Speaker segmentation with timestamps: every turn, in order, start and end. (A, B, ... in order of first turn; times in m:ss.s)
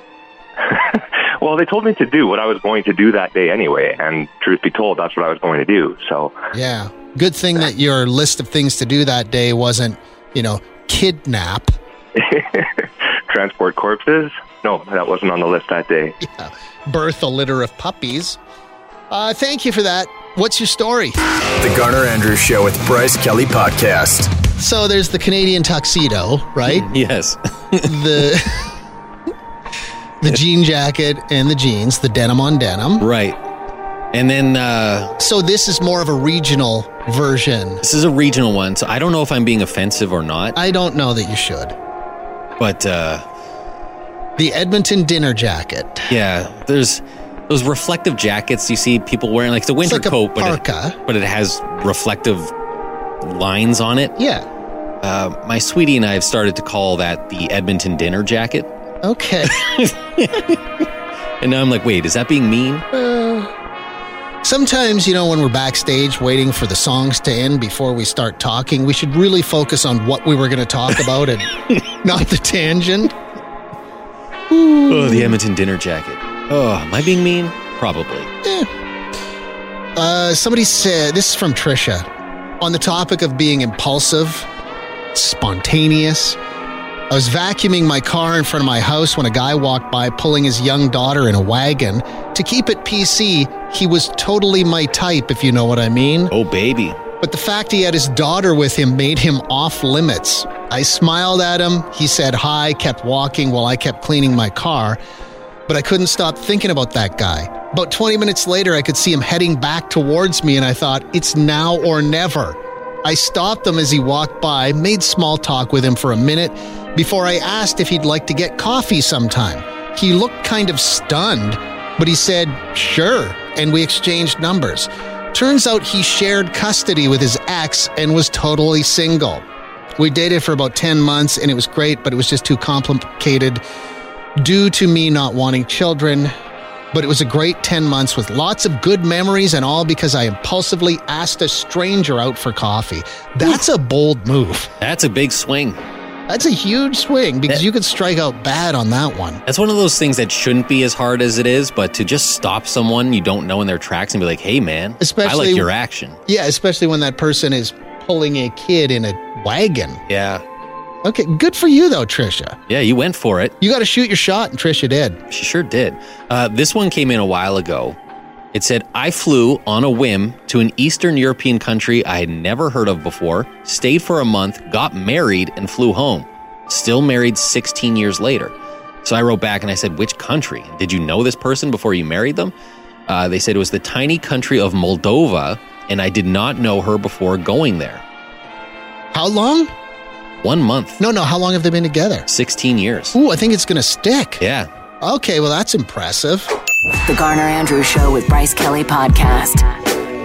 0:00.6-0:06.4 A
0:06.5-0:11.8 B
0:12.2-0:16.2 A
0:16.2-0:18.4 B
0:19.1-0:21.2 B
0:21.6-0:24.3 C
0:24.6-0:26.9 B
0:26.7-0:28.2 D
0:27.8-0:28.7 B
0:30.2-0:33.1 B
0:33.0-0:33.4 D
0:34.1-0:35.1 D
0:35.2-0:37.8 B
0:37.8-0:40.6 D
0:40.6-0:41.8 B
0:42.6-0:43.2 D
0:44.4-0:46.1 B
0:46.1-0:52.5 D
0:49.8-0:51.0 B
0:53.2-0:54.2 D
0:54.2-0:54.4 B
0:55.0-0:58.7 D
0:59.0-0:59.7 B
0:59.4-1:00.8 D
1:01.4-1:02.8 D
1:02.9-1:03.5 B
1:04.4-1:13.1 B
1:14.5-1:15.4 B
1:14.8-1:18.3 D
1:18.4-1:18.7 B
1:20.0-1:22.0 B
1:22.6-1:24.5 B
1:25.1-1:26.4 B
1:27.1-1:36.3 B
1:36.3-1:37.0 D
1:37.2-1:45.0 B
1:45.7-2:09.4 B
2:10.0-2:13.6 B
2:14.4-2:16.3 B
2:16.9-2:24.7 B
2:24.8-2:25.8 D
2:26.3-2:29.4 B
2:29.4-2:36.2 D
2:35.0-2:35.7 B
2:36.2-2:40.0 B
2:40.1-2:40.4 D
2:41.0-2:42.6 B
2:42.7-2:43.5 D
2:43.6-2:45.2 B
2:45.3-2:48.0 D
2:48.5-3:02.5 D
3:03.1-3:08.0 D
3:09.1-3:09.7 B
3:10.4-3:11.0 D
3:11.0-3:12.3 B
3:12.3-3:13.2 D
3:13.1-3:14.4 B
3:14.4-3:14.7 D
3:15.0-3:16.5 B
3:17.0-3:19.7 E